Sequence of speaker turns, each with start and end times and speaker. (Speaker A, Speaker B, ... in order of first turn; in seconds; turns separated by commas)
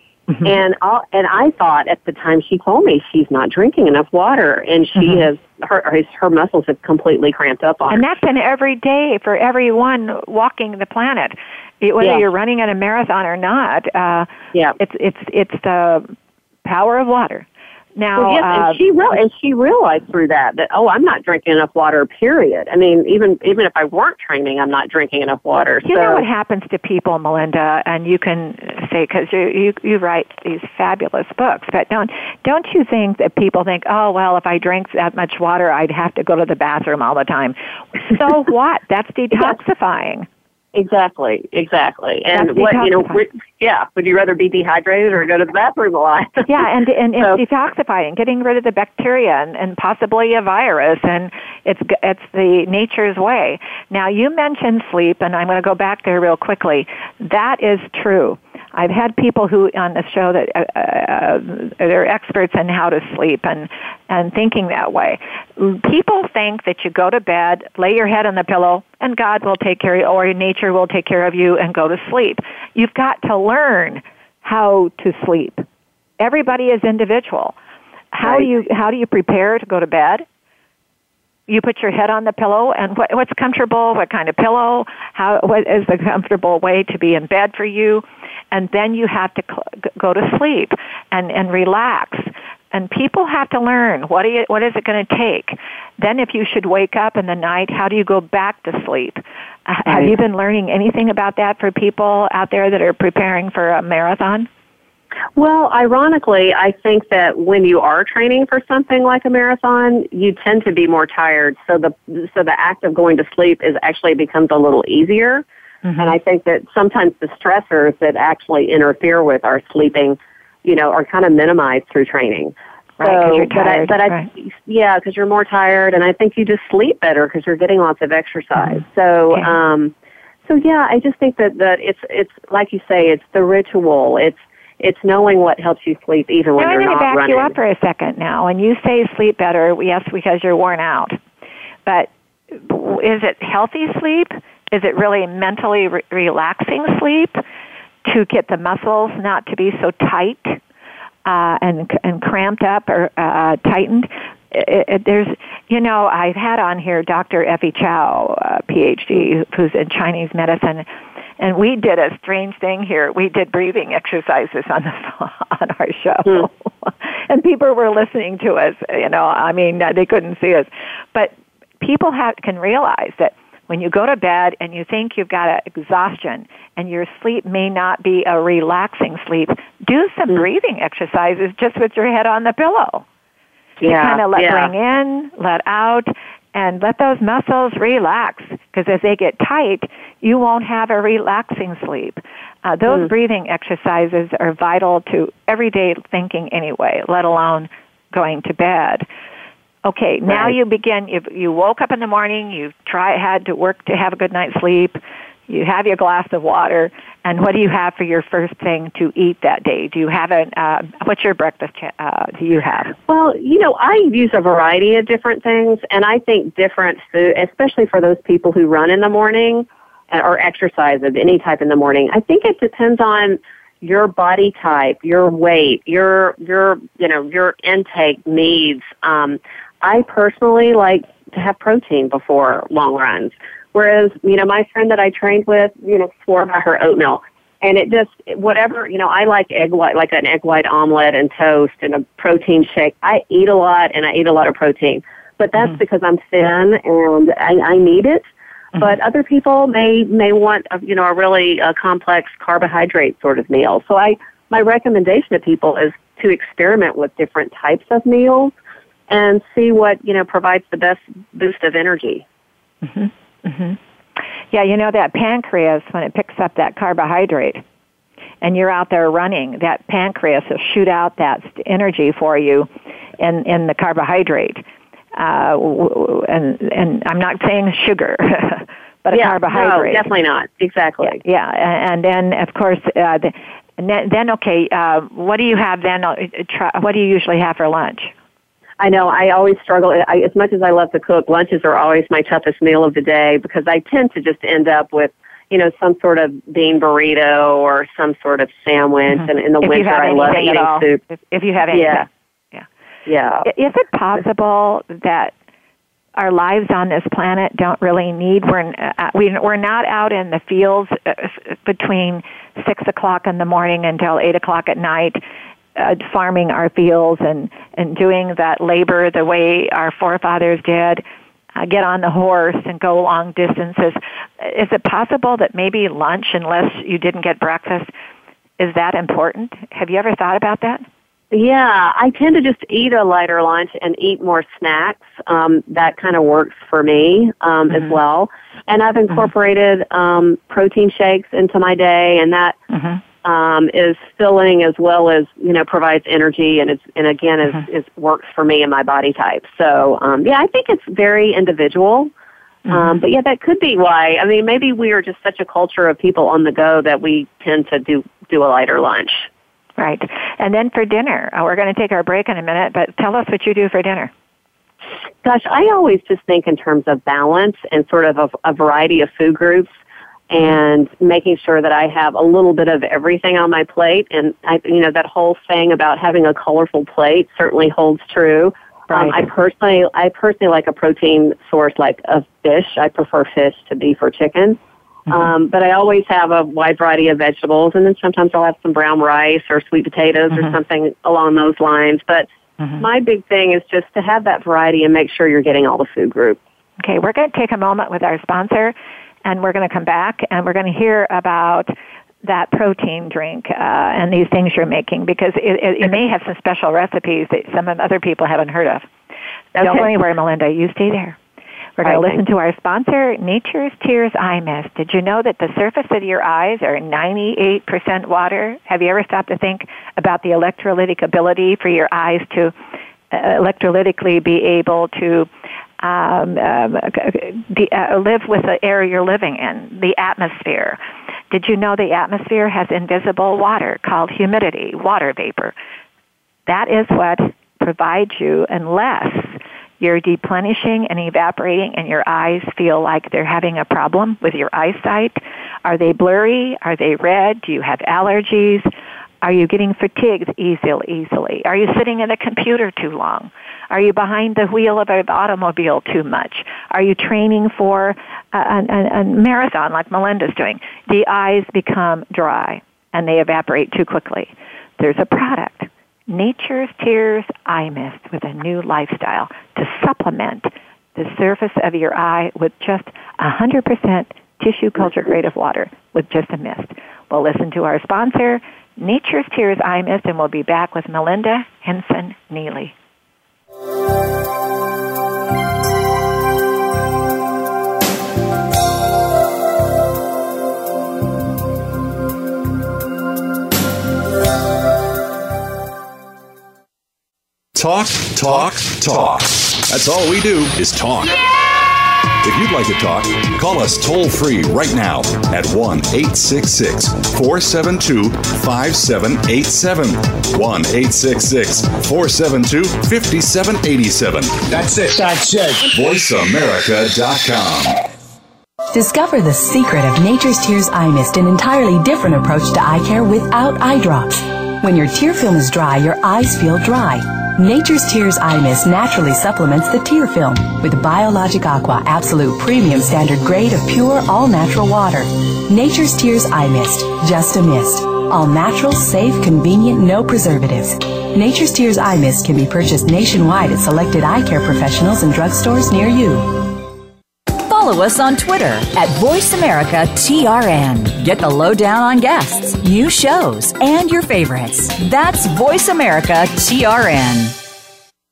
Speaker A: 0.4-8.1, Speaker B: 5.0-5.3, Speaker B: 7.9-16.1, Speaker A: 12.0-12.3, Speaker B: 16.6-18.8, Speaker A: 18.2-26.2, Speaker B: 25.8-40.3, Speaker A: 40.7-46.5, Speaker B: 42.3-43.2, Speaker B: 46.5-75.7, Speaker B: 76.2-77.6, Speaker B: 78.1-80.3, Speaker B: 81.5-104.5, Speaker A: 105.4-115.4, Speaker B: 115.8-116.2, Speaker A: 116.0-129.9, Speaker B: 123.0-124.3, Speaker A: 130.5-137.5, Speaker B: 136.6-141.2, Speaker B: 141.9-147.4, Speaker B: 148.1-150.6, Speaker B: 151.2-160.9, Speaker B: 161.4-183.1, Speaker A: 183.8-184.7, Speaker B: 183.8-199.1, Speaker B: 199.8-212.9, Speaker A: 213.1-248.2, Speaker A: 248.8-258.5, Speaker A: 259.1-262.2, Speaker B: 262.8-263.8, Speaker B: 264.5-267.6, Speaker B: 268.4-274.6, Speaker B: 275.1-280.1, Speaker A: 279.1-281.2, Speaker B: 281.0-288.1, Speaker A: 288.8-301.0, Speaker B: 299.1-302.7, Speaker A: 301.7-302.1, Speaker A: 303.1-303.5, Speaker B: 303.4-305.3, Speaker B: 306.2-315.2, Speaker B: 315.8-321.0, Speaker B: 321.6-327.9, Speaker B: 328.6-330.8, Speaker A: 331.3-342.6, Speaker B: 342.7-343.0, Speaker A: 343.2-352.1, Speaker B: 352.7-353.0, Speaker A: 352.7-359.3, Speaker B: 359.8-364.1, Speaker A: 365.2-369.7, Speaker A: 370.3-392.3, Speaker B: 378.9-379.2, Speaker A: 392.8-396.4, Speaker B: 396.8-401.7, Speaker B: 402.2-408.9, Speaker A: 409.6-409.9, Speaker B: 409.6-411.2, Speaker B: 411.8-422.5, Speaker A: 411.8-412.2, Speaker B: 423.1-430.8, Speaker B: 431.3-435.6, Speaker B: 436.5-448.7, Speaker B: 449.2-482.7, Speaker C: 497.6-501.3, Speaker C: 502.2-517.8, Speaker D: 518.7-546.3, Speaker E: 547.4-557.4